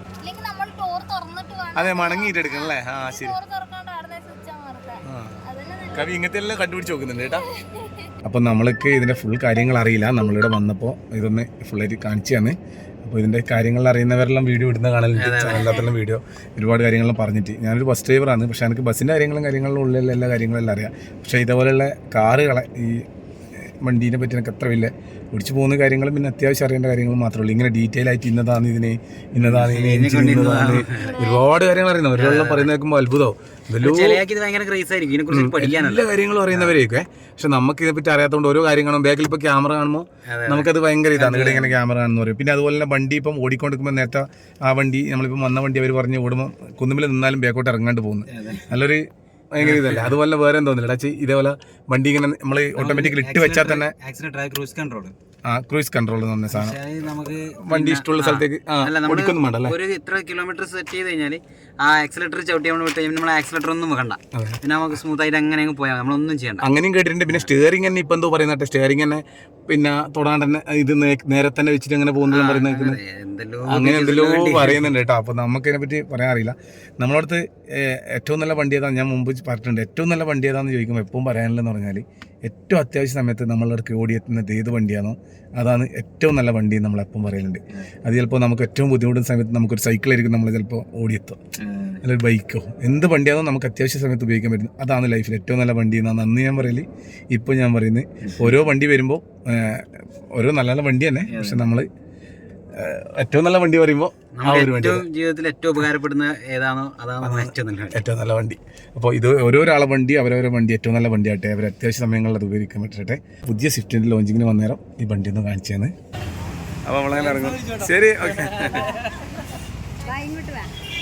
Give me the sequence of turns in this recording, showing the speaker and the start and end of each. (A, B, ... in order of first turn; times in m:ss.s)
0:00.2-0:06.2 A
0:01.8-0:03.4 B
0:05.1-0:05.4 B
0:05.9-0:07.4 B
0:07.3-0:08.1 A
0:08.2-0:23.0 B
0:15.2-0:15.9 C
0:23.6-0:34.2 B
0:29.4-0:31.1 C
0:31.1-0:31.4 A
0:32.2-0:32.7 C
0:33.8-0:36.8 C
0:35.3-0:53.9 B
0:40.3-0:41.8 C
0:48.3-0:48.7 C
0:49.6-0:50.2 C
0:52.8-0:55.2 C
0:55.4-0:56.8 B
0:56.5-1:06.7 C
0:57.6-0:59.8 B
1:04.3-1:04.6 B
1:06.6-1:13.0 B
1:12.3-1:14.9 C
1:13.7-1:31.4 B
1:31.6-1:32.0 C
1:32.0-1:41.9 B
1:38.2-1:38.6 C
1:41.3-1:41.7 C
1:42.8-1:45.0 B
1:44.4-1:48.0 C
1:47.2-1:55.9 B
1:56.9-1:58.9 B
1:57.1-1:59.2 C
2:00.0-2:00.7 A